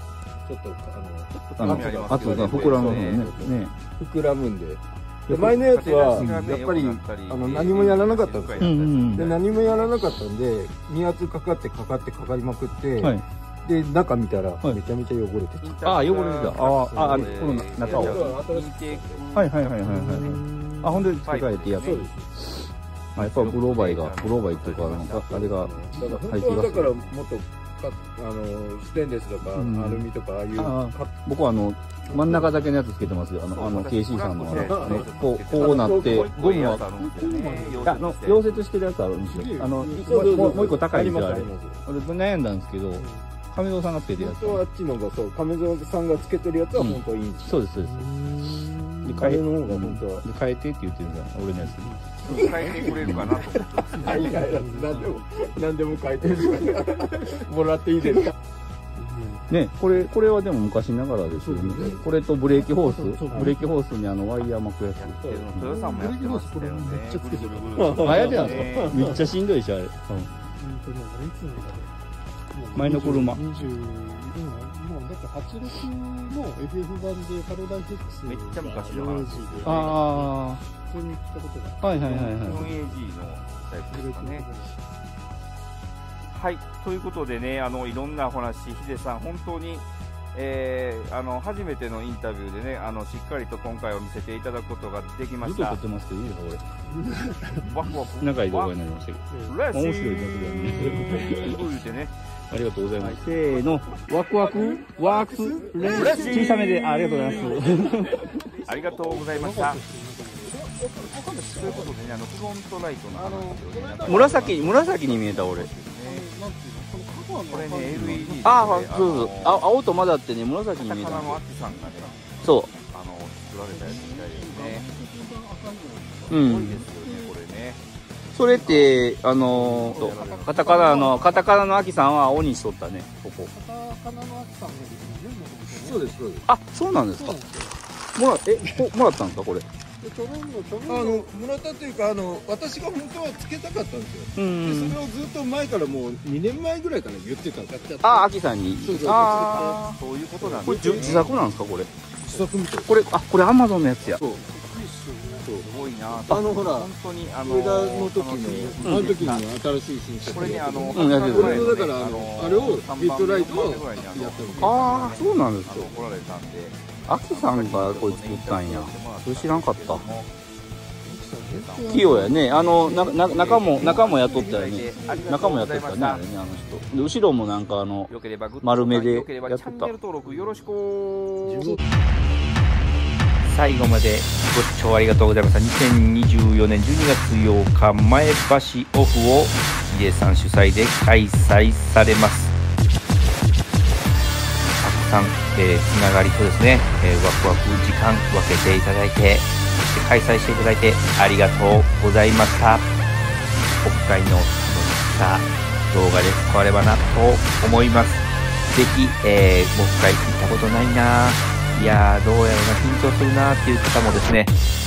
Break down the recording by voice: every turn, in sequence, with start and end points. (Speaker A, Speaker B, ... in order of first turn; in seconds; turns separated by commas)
Speaker A: 0.4-15.9, Speaker B: 1.6-3.3, Speaker C: 1.6-3.7, Speaker C: 5.3-5.6, Speaker B: 5.4-10.1, Speaker C: 6.1-6.4, Speaker C: 8.6-9.3, Speaker B: 15.6-20.1, Speaker C: 15.8-18.3, Speaker A: 16.9-19.2, Speaker C: 19.3-26.9, Speaker D: 19.9-21.0, Speaker B: 21.2-22.0, Speaker A: 21.8-22.2, Speaker B: 23.1-25.5, Speaker A: 25.3-31.1, Speaker C: 29.5-36.8, Speaker B: 33.5-38.6, Speaker D: 34.6-35.1, Speaker A: 34.7-36.6, Speaker D: 36.8-38.0, Speaker C: 37.8-44.6, Speaker D: 39.3-40.9, Speaker A: 40.0-41.8, Speaker D: 43.0-43.2, Speaker A: 44.1-47.6, Speaker C: 46.7-48.1, Speaker D: 47.8-49.3, Speaker C: 49.0-52.0, Speaker A: 49.1-50.2, Speaker D: 51.6-53.2, Speaker B: 52.2-54.4, Speaker C: 53.0-53.4, Speaker D: 53.9-55.2, Speaker A: 54.0-58.3, Speaker D: 59.0-59.5, Speaker C: 59.5-65.8, Speaker D: 61.4-62.0, Speaker D: 62.6-63.6, Speaker B: 65.0-69.1, Speaker D: 65.7-69.3, Speaker C: 67.8-70.3, Speaker D: 70.5-71.9, Speaker D: 72.5-82.2, Speaker C: 72.7-73.6, Speaker B: 78.2-80.3, Speaker C: 79.6-80.6, Speaker C: 81.8-82.7, Speaker B: 82.0-84.5, Speaker D: 83.9-84.8, Speaker B: 86.3-95.8, Speaker C: 95.4-96.6, Speaker D: 97.0-97.7, Speaker B: 97.6-98.8, Speaker C: 98.2-101.7, Speaker B: 99.4-102.2, Speaker C: 102.5-108.3, Speaker A: 103.0-107.8, Speaker D: 105.0-107.8, Speaker B: 105.8-107.4, Speaker B: 108.7-109.8, Speaker A: 108.7-109.2, Speaker D: 109.0-111.9, Speaker A: 110.4-111.8, Speaker B: 111.1-116.3, Speaker D: 113.2-113.6, Speaker A: 113.6-115.1, Speaker C: 114.0-115.7, Speaker D: 116.0-118.6, Speaker B: 117.5-119.7, Speaker C: 118.4-121.4, Speaker B: 120.8-122.1, Speaker D: 121.8-122.5, Speaker C: 122.4-122.7, Speaker B: 122.7-124.8, Speaker D: 123.7-127.3, Speaker C: 126.3-126.8, Speaker B: 126.3-127.8, Speaker C: 128.3-133.5, Speaker D: 128.3-128.9, Speaker B: 128.7-131.3, Speaker D: 129.8-132.0, Speaker D: 133.5-136.2, Speaker A: 135.7-136.5, Speaker C: 136.5-137.4, Speaker D: 137.1-137.8, Speaker C: 138.2-139.7, Speaker D: 140.0-141.3, Speaker A: 140.9-151.4, Speaker C: 144.3-145.0, Speaker C: 148.0-150.0, Speaker B: 149.3-151.3, Speaker C: 150.6-151.9, Speaker A: 152.3-152.9, Speaker C: 152.8-154.2, Speaker A: 154.1-154.5, Speaker D: 155.1-155.4, Speaker A: 155.3-155.7, Speaker B: 155.6-159.5, Speaker A: 156.2-156.9, Speaker A: 157.4-165.0, Speaker C: 158.8-159.2, Speaker B: 160.3-170.3, Speaker C: 160.9-161.7, Speaker C: 164.6-165.9, Speaker C: 167.1-170.0, Speaker D: 171.0-173.2, Speaker A: 171.5-171.9, Speaker B: 171.6-171.9, Speaker C: 171.9-178.1, Speaker B: 172.5-176.2, Speaker D: 173.7-175.4, Speaker B: 178.1-181.8, Speaker C: 178.6-179.9, Speaker E: 183.4-192.5, Speaker E: 194.8-202.9, Speaker E: 203.8-214.5